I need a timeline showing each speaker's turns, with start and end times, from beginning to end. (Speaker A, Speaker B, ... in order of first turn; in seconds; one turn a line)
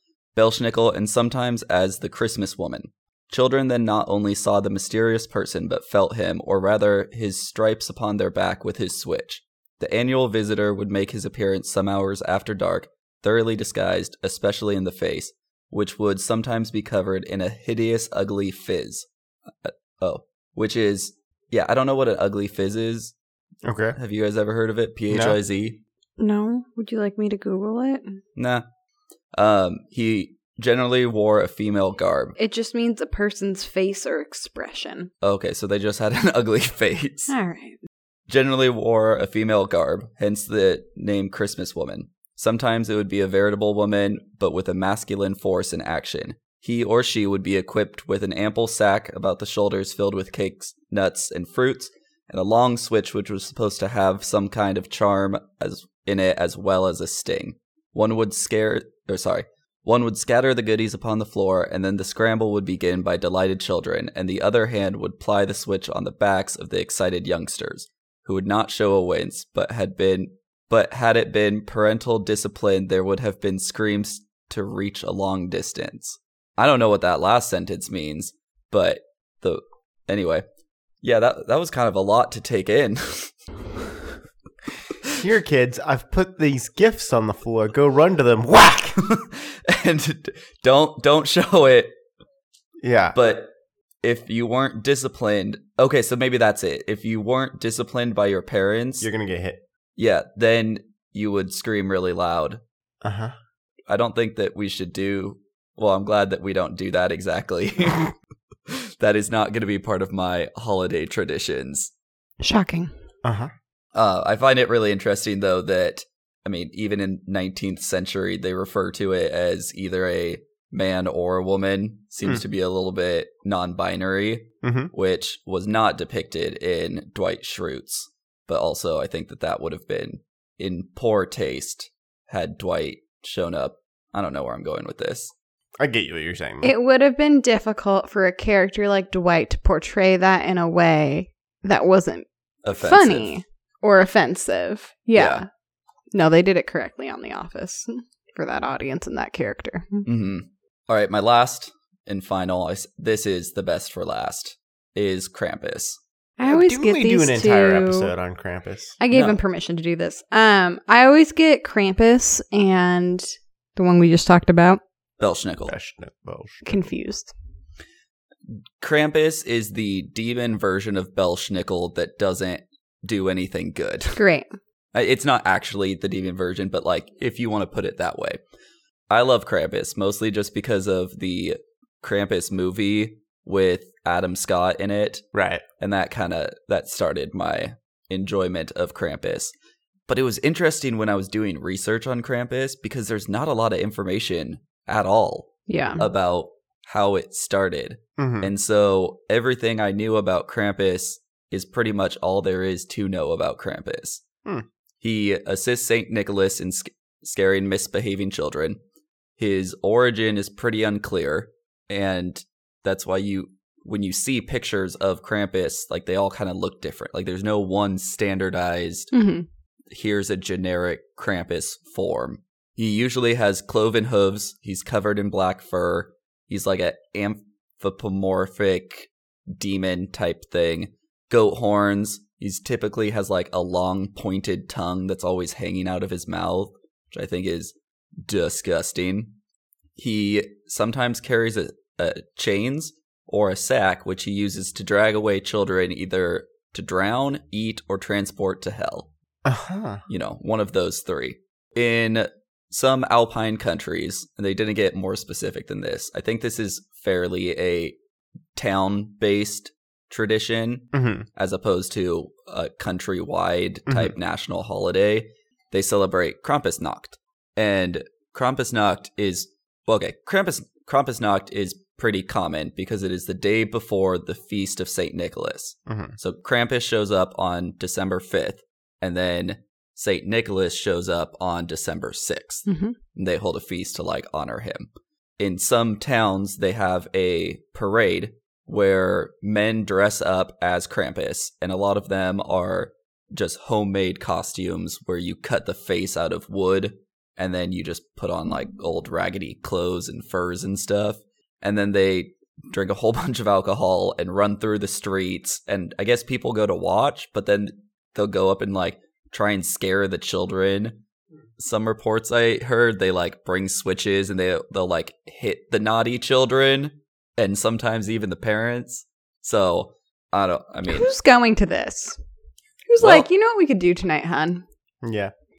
Speaker A: 0.3-19.1
Speaker A: 19.6-23.1
Speaker B: 23.6-24.0
Speaker A: 23.9-25.8
Speaker B: 25.1-25.4
Speaker C: 26.2-28.2
Speaker A: 28.4-28.6
Speaker A: 29.4-32.4
Speaker C: 32.4-35.1
Speaker A: 35.2-37.3
Speaker C: 37.3-37.8
Speaker A: 38.3-80.4
Speaker A: 81.0-83.3
Speaker B: 85.2-89.0
Speaker A: 89.0-91.9
Speaker B: 92.8-93.2
Speaker A: 93.2-93.5
Speaker A: 94.0-99.1
Speaker B: 99.0-99.6
Speaker A: 100.0-102.6
Speaker B: 103.0-103.3
Speaker A: 103.9-108.1
Speaker A: 108.7-111.9
Speaker C: 112.4-112.9
Speaker B: 113.2-113.5
Speaker A: 113.9-135.3
Speaker B: 124.6-124.9
Speaker B: 135.8-136.7
Speaker C: 136.6-145.5
Speaker A: 142.6-143.4
Speaker A: 145.2-145.4
Speaker C: 146.1-150.1
Speaker A: 150.1-156.0
Speaker C: 156.4-158.1
Speaker B: 156.5-159.0
Speaker C: 159.0-164.8
Speaker A: 159.1-159.4
Speaker A: 165.2-165.7
Speaker B: 165.7-166.6
Speaker C: 166.7-167.3
Speaker A: 168.8-174.2
Speaker C: 174.2-174.5
Speaker A: 174.9-178.4
Speaker A: 179.1-185.3
Speaker B: 185.3-185.6
Speaker A: 185.8-189.5
Speaker A: 190.1-204.2
Speaker C: 195.7-196.0
Speaker B: 198.2-198.5
Speaker A: 205.0-208.8
Speaker A: 209.4-219.1
Speaker C: 219.1-219.5
Speaker A: 219.9-239.3
Speaker A: 240.0-249.1
Speaker B: 249.4-250.0
Speaker A: 250.1-258.0
Speaker A: 258.6-311.0
Speaker B: 260.9-261.3
Speaker B: 263.9-264.1
Speaker B: 275.9-276.2
Speaker C: 282.7-283.0
Speaker A: 311.6-321.1
Speaker C: 320.9-322.2
Speaker C: 322.9-324.6
Speaker A: 323.0-323.3
Speaker B: 325.0-325.3